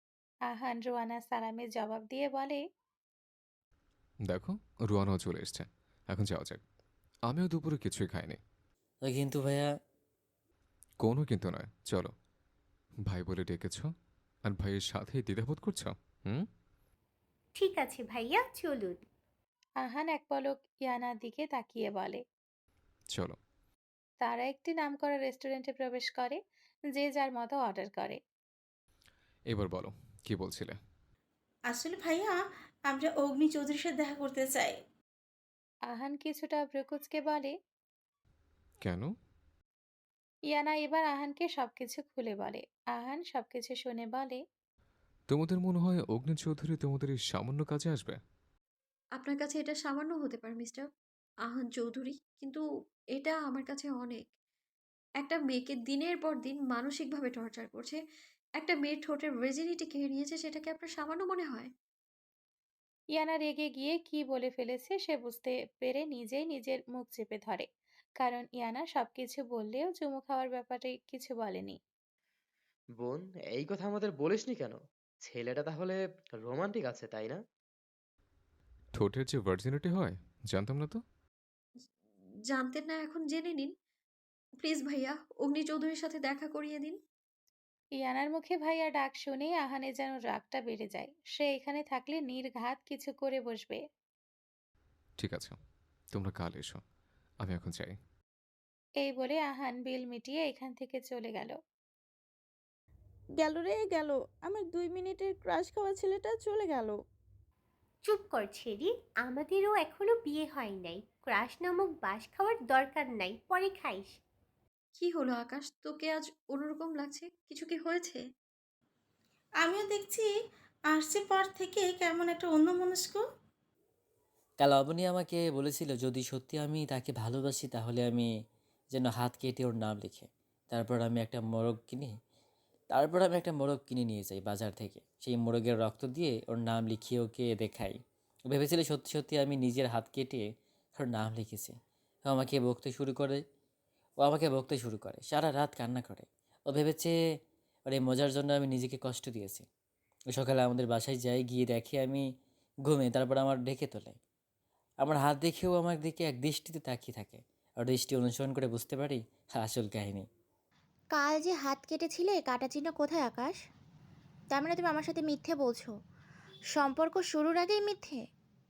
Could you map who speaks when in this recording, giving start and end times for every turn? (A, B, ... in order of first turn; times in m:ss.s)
0:00.5-0:02.6 A
0:04.3-0:06.6 B
0:07.3-0:08.4 B
0:09.0-0:09.7 C
0:11.0-0:12.1 B
0:13.1-0:13.9 B
0:14.5-0:16.4 B
0:17.6-0:19.0 D
0:19.8-0:22.2 A
0:24.2-0:26.4 A
0:27.0-0:28.2 A
0:29.5-0:30.8 B
0:31.7-0:34.8 E
0:35.9-0:37.5 A
0:38.8-0:39.1 B
0:40.5-0:44.4 A
0:45.3-0:48.2 B
0:49.2-0:50.9 F
0:51.5-0:52.6 F
0:53.2-0:54.2 F
0:55.2-0:58.0 F
0:58.6-1:01.7 F
1:03.2-1:07.7 A
1:08.2-1:11.8 A
1:13.0-1:17.4 G
1:19.0-1:21.0 B
1:22.5-1:23.7 F
1:24.6-1:27.0 F
1:28.0-1:33.8 A
1:35.2-1:35.6 B
1:36.1-1:36.8 B
1:37.4-1:38.0 B
1:39.0-1:41.6 A
1:43.4-1:47.0 H
1:48.0-1:54.2 D
1:55.0-1:58.2 F
1:59.6-2:00.3 E
2:00.9-2:03.2 E
2:04.6-2:08.3 C
2:08.9-2:12.1 C
2:12.9-2:23.4 C
2:24.2-2:27.1 C
2:27.9-2:29.7 C
2:30.3-2:32.3 C
2:32.9-2:34.2 C
2:35.0-2:40.3 C
2:41.1-2:43.6 I
2:44.5-2:45.9 I
2:46.8-2:48.2 I